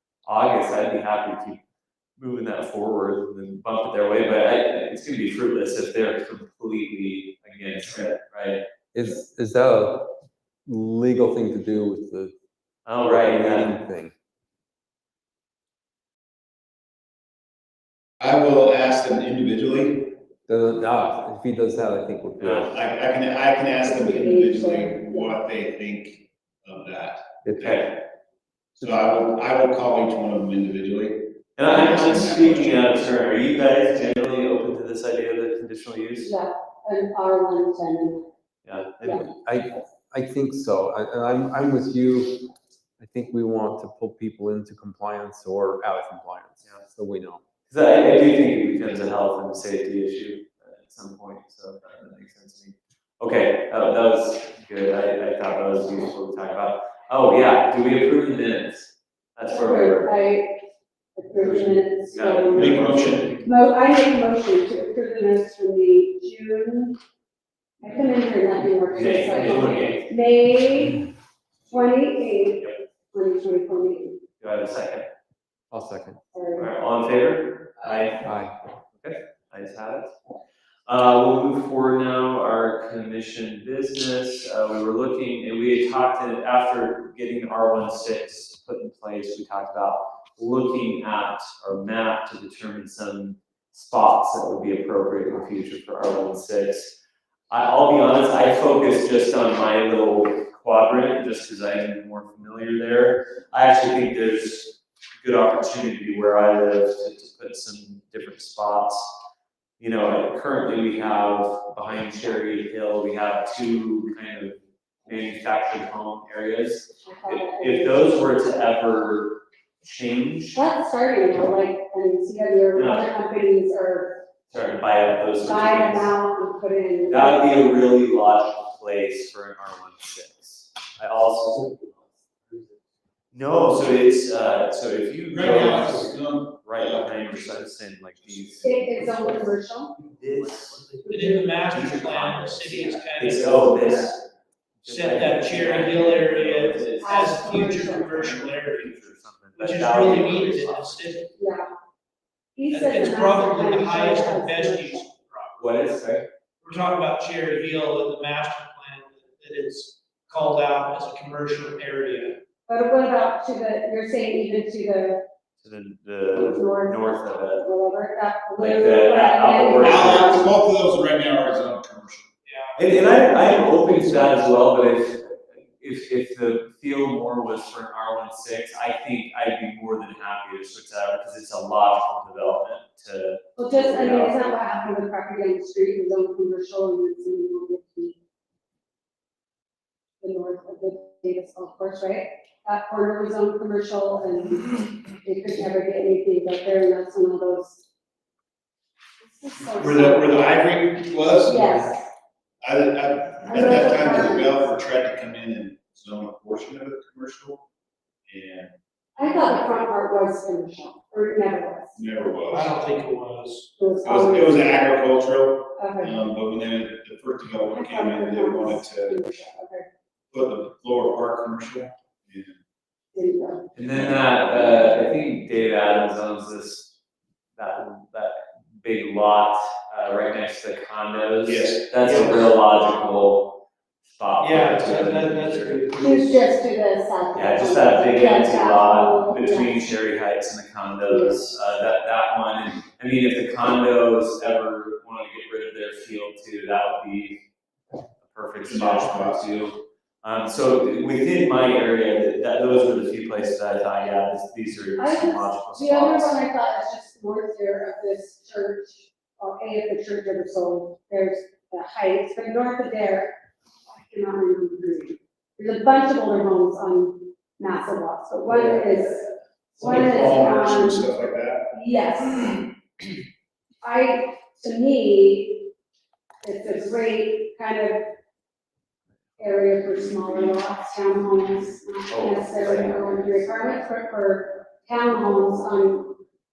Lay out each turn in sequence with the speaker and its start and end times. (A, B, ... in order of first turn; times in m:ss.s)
0:00.2-0:01.6 A
0:02.2-0:08.6 A
0:08.9-0:10.1 B
0:10.6-0:12.3 B
0:12.8-0:13.8 A
0:13.0-0:14.1 B
0:18.2-0:20.1 C
0:20.5-0:22.7 B
0:22.4-0:22.7 A
0:22.6-0:27.8 C
0:23.8-0:25.4 D
0:27.5-0:27.9 A
0:28.8-0:32.8 C
0:31.6-0:36.3 A
0:36.2-0:38.3 D
0:38.6-0:39.3 A
0:39.3-0:47.4 B
0:47.7-1:00.1 A
0:59.5-1:00.6 D
1:01.2-1:02.7 D
1:02.1-1:02.7 A
1:02.5-1:03.4 C
1:02.6-1:03.3 E
1:03.4-1:07.0 D
1:07.8-1:11.0 D
1:08.9-1:10.1 A
1:11.7-1:14.2 D
1:14.4-1:15.0 A
1:15.7-1:16.2 B
1:16.3-1:16.7 D
1:16.5-1:18.2 A
1:18.2-1:18.5 B
1:19.0-1:20.1 A
1:20.8-1:36.9 A
1:37.5-1:49.1 A
1:49.8-2:00.6 A
1:57.0-1:58.1 D
2:00.5-2:04.2 D
2:02.7-2:03.1 A
2:04.5-2:06.1 A
2:05.4-2:07.6 D
2:07.1-2:12.1 A
2:13.3-2:18.7 A
2:15.3-2:18.9 C
2:18.6-2:20.0 D
2:20.2-2:20.9 A
2:20.8-2:24.0 E
2:21.0-2:21.6 D
2:21.7-2:24.2 A
2:24.8-2:31.1 A
2:24.8-2:29.0 E
2:27.0-2:28.3 D
2:29.6-2:31.3 E
2:31.4-2:31.7 D
2:32.6-2:35.0 D
2:32.7-2:35.6 E
2:35.6-2:36.3 A
2:36.6-2:42.4 E
2:42.7-2:45.2 D
2:45.6-2:47.6 A
2:46.3-2:50.5 D
2:48.6-2:50.4 A
2:49.8-2:52.3 C
2:52.4-2:53.0 E
2:52.8-3:04.4 A
3:03.6-3:08.2 D
3:10.2-3:17.8 D
3:19.2-3:20.3 D
3:19.8-3:21.9 C
3:21.4-3:22.1 D
3:22.6-3:27.6 C
3:23.5-3:24.7 D
3:28.3-3:28.7 C
3:29.2-3:32.0 D
3:31.9-3:32.8 C
3:32.5-3:33.7 E
3:33.8-3:34.9 D
3:34.0-3:39.2 C
3:35.8-3:36.2 D
3:37.7-3:39.8 D
3:40.3-3:42.5 C
3:43.1-3:43.7 D
3:43.7-3:46.9 A
3:43.8-3:44.4 C
3:47.5-3:53.5 A
3:51.4-3:51.8 C
3:52.0-3:52.4 E
3:54.0-3:55.8 A
3:54.4-3:56.5 E
3:56.0-3:59.9 D
3:57.3-4:07.4 A
4:01.1-4:01.5 D
4:08.2-4:16.4 A
4:08.6-4:09.5 C
4:15.0-4:23.3 D
4:23.9-4:31.1 D
4:28.5-4:28.8 C
4:29.8-4:31.6 C
4:31.7-4:32.7 D
4:33.8-4:35.7 D
4:36.4-4:38.0 D
4:39.4-4:46.2 D
4:42.1-4:43.2 A